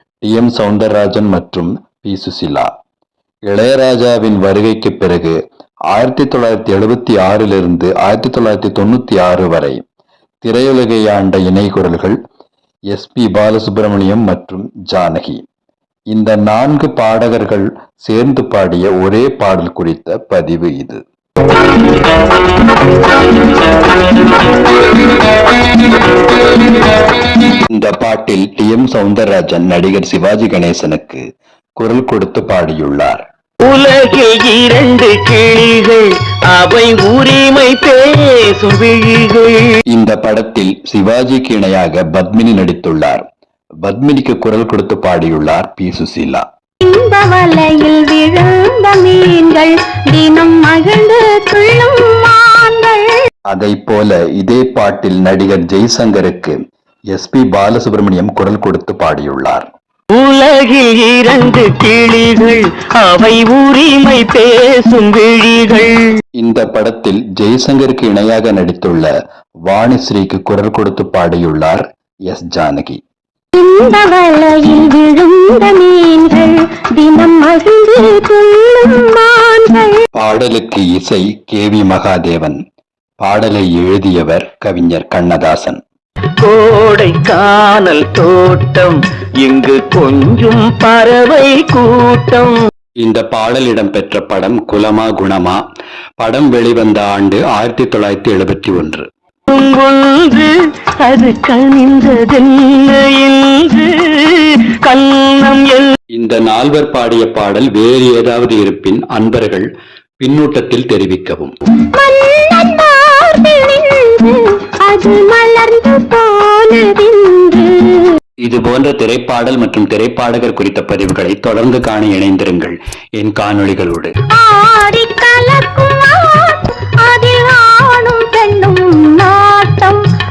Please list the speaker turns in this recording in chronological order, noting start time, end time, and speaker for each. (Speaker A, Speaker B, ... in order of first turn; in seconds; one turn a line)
Speaker A: 0.2-2.7
Speaker A: 3.5-5.3
Speaker A: 5.9-9.8
Speaker A: 10.4-12.2
Speaker A: 12.9-15.4
Speaker A: 16.1-21.0
Speaker A: 27.7-31.2
Speaker A: 31.8-33.2
Speaker B: 33.6-39.8
Speaker A: 39.9-43.3
Speaker A: 43.8-46.4
Speaker C: 46.8-53.2
Speaker A: 53.5-56.6
Speaker A: 57.1-59.7
Speaker B: 60.1-66.2
Speaker A: 66.4-69.1
Speaker A: 69.7-73.0
Speaker C: 73.5-80.0
Speaker A: 80.1-82.6
Speaker A: 83.2-85.8
Speaker B: 86.4-92.6
Speaker A: 93.0-95.6
Speaker A: 96.2-99.1
Speaker B: 99.5-106.0
Speaker A: 106.1-109.7
Speaker A: 110.2-111.5
Speaker C: 111.8-118.2
Speaker A: 118.4-124.1
Speaker C: 124.3-130.0